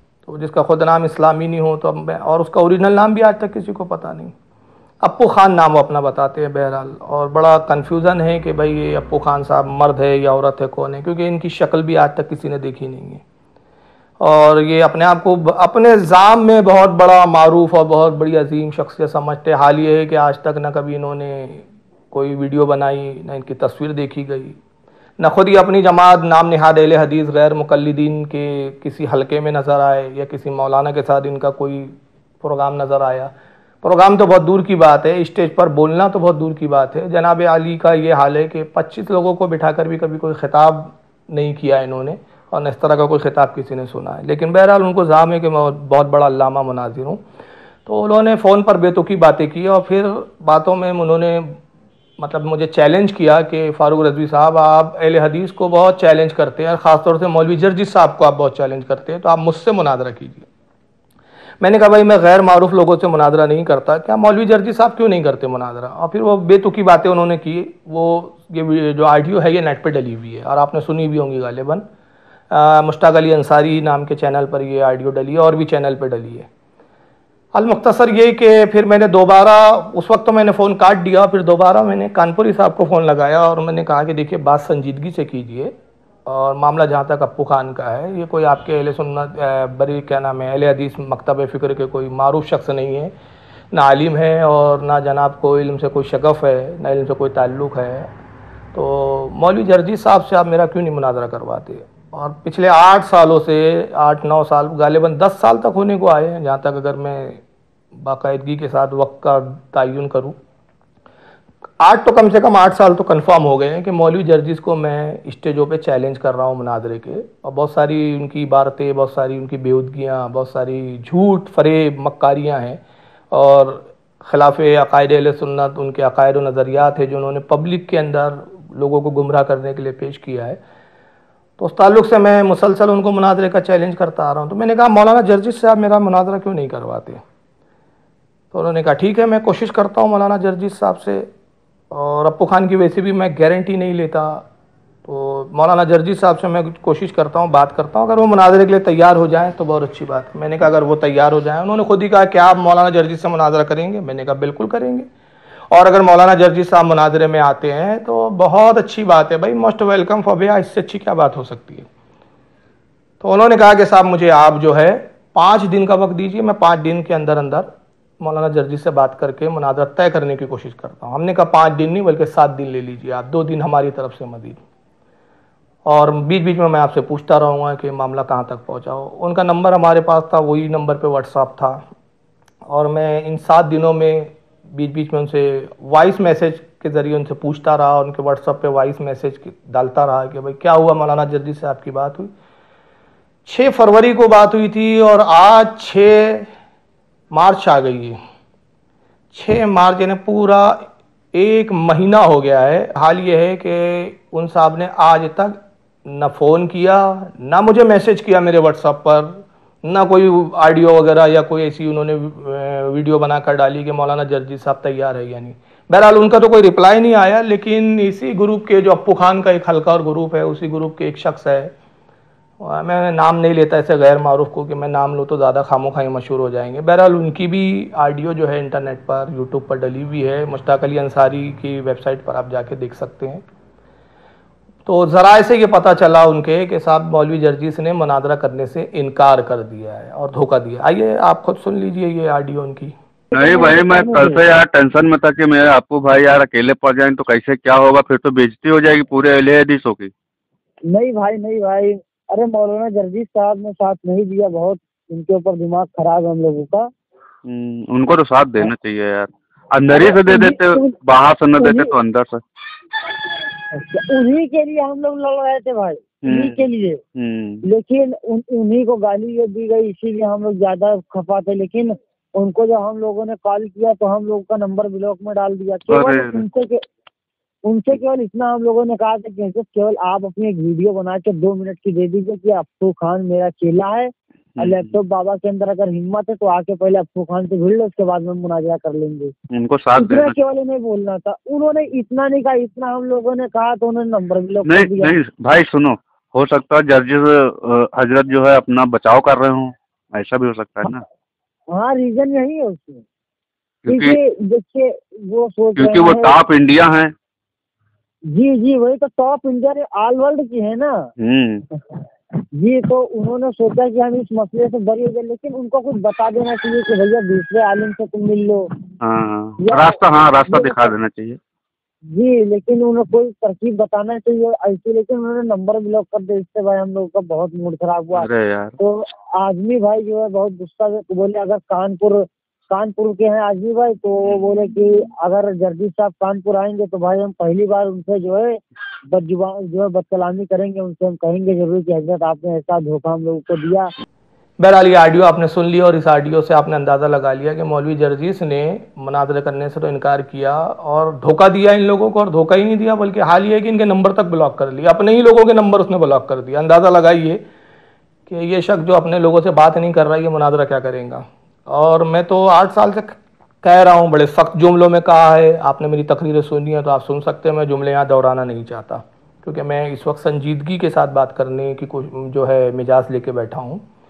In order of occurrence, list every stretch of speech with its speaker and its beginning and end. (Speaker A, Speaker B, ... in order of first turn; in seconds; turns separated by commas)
Speaker A: 0.2-4.3, Speaker A: 5.0-13.2, Speaker A: 14.2-24.6, Speaker A: 25.2-47.2, Speaker A: 47.9-51.6, Speaker A: 52.2-60.5, Speaker A: 61.6-71.8, Speaker A: 72.5-76.5, Speaker A: 77.5-85.7, Speaker A: 86.3-93.1, Speaker A: 93.7-98.1, Speaker A: 98.7-107.4, Speaker A: 108.0-110.4, Speaker A: 111.8-122.8, Speaker A: 123.3-130.6, Speaker A: 131.6-137.2, Speaker A: 138.5-141.3, Speaker A: 141.9-144.5, Speaker A: 145.1-155.1, Speaker A: 155.7-161.9, Speaker A: 163.2-167.7, Speaker A: 168.2-174.6, Speaker A: 175.9-181.8, Speaker A: 182.7-192.3, Speaker A: 193.4-196.5, Speaker A: 197.3-198.2, Speaker A: 199.3-200.8, Speaker A: 201.3-221.7, Speaker A: 222.6-233.4, Speaker A: 234.9-242.9, Speaker B: 243.3-244.4, Speaker C: 243.3-250.1, Speaker B: 250.9-256.9, Speaker C: 257.4-262.4, Speaker B: 259.9-260.9, Speaker B: 261.6-261.9, Speaker B: 263.7-267.0, Speaker C: 266.2-266.6, Speaker C: 267.1-267.6, Speaker B: 267.7-276.8, Speaker C: 275.9-276.4, Speaker B: 277.6-289.3, Speaker C: 284.6-284.9, Speaker C: 289.5-290.4, Speaker B: 290.0-295.1, Speaker C: 294.6-301.0, Speaker B: 301.7-303.0, Speaker C: 303.9-304.2, Speaker B: 303.9-306.3, Speaker C: 305.8-307.1, Speaker B: 308.3-311.1, Speaker C: 311.2-311.6, Speaker B: 312.6-318.7, Speaker C: 319.0-321.4, Speaker B: 319.6-320.0, Speaker B: 320.5-320.9, Speaker B: 322.1-343.9, Speaker C: 328.1-328.7, Speaker A: 344.6-357.4, Speaker A: 358.3-373.8